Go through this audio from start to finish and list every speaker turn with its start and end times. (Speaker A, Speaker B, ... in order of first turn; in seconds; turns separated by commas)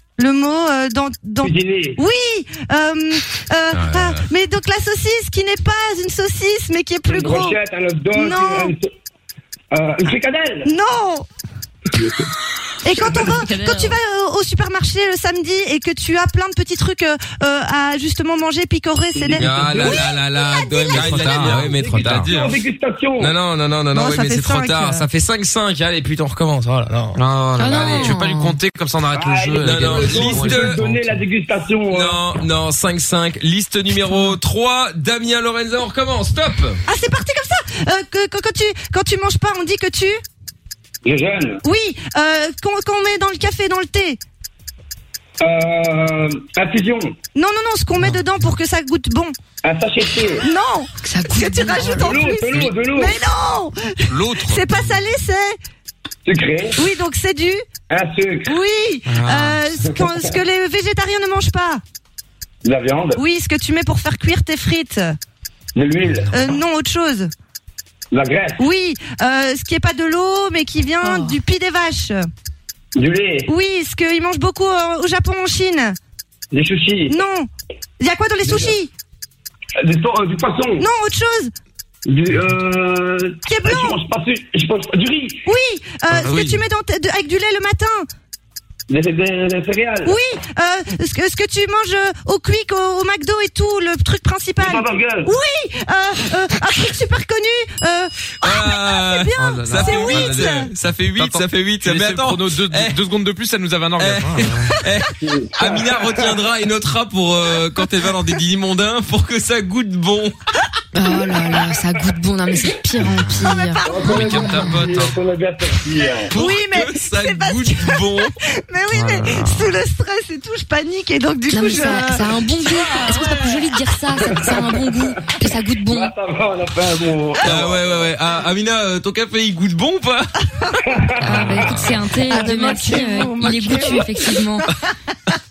Speaker A: 0.2-7.6, Speaker B: 1.4-2.0, Speaker C: 3.7-4.3, Speaker B: 7.1-8.9, Speaker A: 8.1-8.7, Speaker B: 9.7-10.7, Speaker A: 10.6-11.3, Speaker A: 12.8-21.0, Speaker D: 13.5-13.9, Speaker B: 19.1-20.0, Speaker C: 19.4-22.3, Speaker E: 20.9-22.6, Speaker B: 21.0-23.4, Speaker C: 23.2-28.1, Speaker A: 23.9-25.1, Speaker E: 27.1-31.2, Speaker D: 27.6-28.6, Speaker B: 29.1-32.2, Speaker C: 29.6-30.8, Speaker C: 31.9-36.8, Speaker A: 36.9-40.2, Speaker B: 41.0-41.6, Speaker A: 41.6-44.2, Speaker B: 45.4-47.2, Speaker A: 47.4-49.4, Speaker B: 49.6-50.5, Speaker A: 50.4-55.6, Speaker D: 51.0-52.2, Speaker B: 51.9-53.2, Speaker E: 54.1-54.8, Speaker B: 56.2-56.8, Speaker A: 56.8-57.6, Speaker B: 57.9-58.6, Speaker A: 58.5-61.8, Speaker E: 59.1-59.6, Speaker B: 59.8-60.3, Speaker B: 62.6-63.2, Speaker A: 63.2-65.2, Speaker B: 65.8-66.3, Speaker A: 66.3-67.3, Speaker B: 68.1-68.6, Speaker A: 68.6-72.3, Speaker D: 71.0-71.4, Speaker B: 73.0-73.5, Speaker A: 73.5-76.0, Speaker B: 76.5-77.2, Speaker A: 77.1-77.5, Speaker A: 78.0-78.9, Speaker B: 78.4-78.8, Speaker B: 79.8-80.9, Speaker A: 80.8-81.5, Speaker B: 82.1-85.5, Speaker A: 83.5-84.0, Speaker A: 85.4-88.1, Speaker E: 86.1-86.6, Speaker B: 88.9-90.2, Speaker A: 90.0-100.7, Speaker B: 94.6-95.3, Speaker C: 98.4-103.0, Speaker E: 99.4-104.8, Speaker C: 104.0-110.4, Speaker B: 105.2-106.4, Speaker D: 110.9-114.8, Speaker A: 113.2-114.4, Speaker B: 113.8-116.3, Speaker E: 114.1-115.2, Speaker C: 116.3-118.3, Speaker A: 116.3-122.3, Speaker E: 118.9-119.6, Speaker D: 121.5-126.1, Speaker B: 124.2-125.0, Speaker B: 125.9-128.1, Speaker C: 127.4-130.6, Speaker B: 130.9-131.4, Speaker D: 131.2-134.7, Speaker A: 132.3-134.4